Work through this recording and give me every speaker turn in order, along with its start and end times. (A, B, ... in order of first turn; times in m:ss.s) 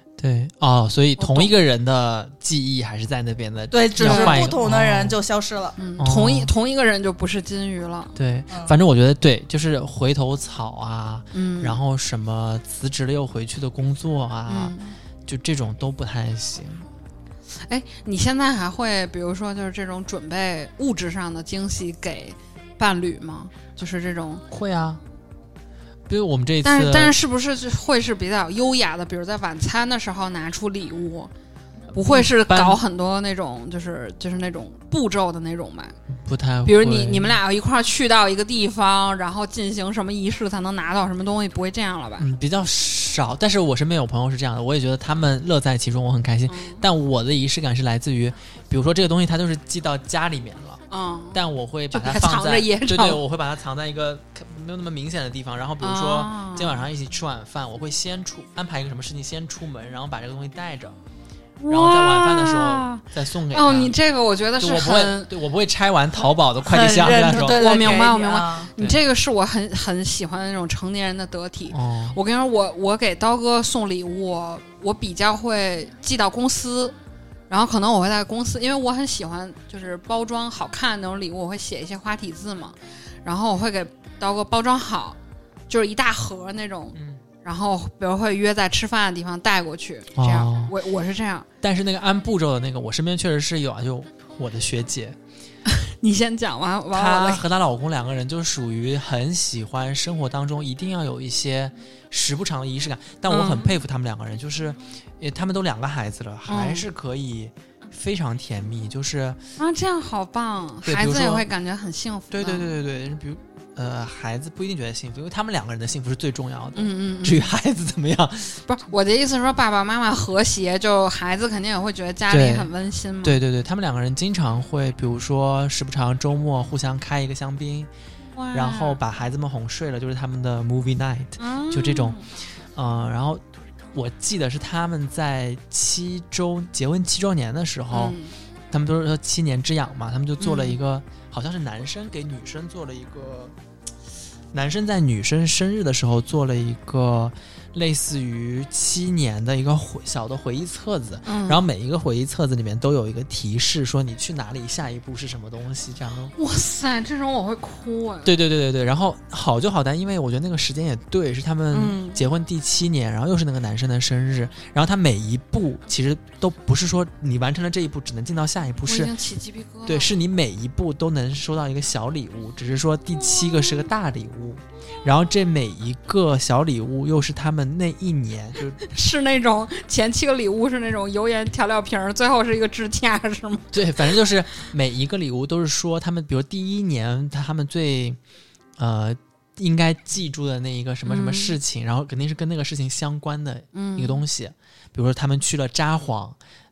0:00.2-0:05.2 A
0:01.2-0:01.5 B
0:03.7-0:05.8 C
0:04.0-0:04.5 B
0:05.8-0:08.1 B
0:06.0-0:06.5 A
0:08.2-0:14.7 A
0:08.5-0:08.8 C
0:11.3-0:11.8 B
0:14.5-0:14.9 B
0:15.2-0:16.9 A
0:17.7-0:24.4 B
0:24.5-0:25.0 A
0:26.1-0:27.1 A
0:26.6-0:31.3 B
0:31.9-0:36.0 B
0:32.0-0:32.8 A
0:36.1-0:37.4 A
0:36.6-0:42.2 B
0:42.2-0:50.8 A
0:46.5-0:46.8 B
0:50.9-0:51.4 B
0:51.3-1:01.0 A
0:51.9-0:53.2 B
0:55.8-0:56.9 B
1:01.6-1:05.3 B
1:01.7-1:04.0 A
1:04.6-1:08.0 A
1:06.6-1:08.7 C
1:07.2-1:16.9 B
1:11.7-1:12.2 A
1:17.5-1:25.2 B
1:25.7-1:31.5 B
1:26.9-1:27.2 A
1:30.2-1:30.7 A
1:31.6-1:35.2 A
1:35.7-1:37.4 B
1:36.9-1:49.4 A
1:43.3-1:43.8 B
1:46.5-1:46.8 B
1:49.6-1:52.7 B
1:50.8-1:51.5 A
1:52.3-1:58.6 A
1:56.7-1:57.5 B
1:58.6-2:03.4 B
2:02.3-2:02.7 A
2:03.2-2:07.9 A
2:08.3-2:09.0 B
2:08.5-2:12.2 A
2:11.4-2:12.2 B
2:12.7-2:13.4 A
2:13.9-2:18.2 A
2:17.9-2:18.3 B
2:18.7-2:23.5 A
2:20.4-2:20.8 B
2:24.5-2:36.3 A
2:31.2-2:31.6 B
2:36.4-2:38.3 B
2:38.2-2:49.1 A
2:41.7-2:42.2 B
2:48.9-2:50.2 B
2:49.8-2:58.8 A
2:58.8-3:03.8 B
3:03.7-3:08.2 A
3:08.8-3:16.4 A
3:11.0-3:11.6 B
3:13.7-3:14.2 B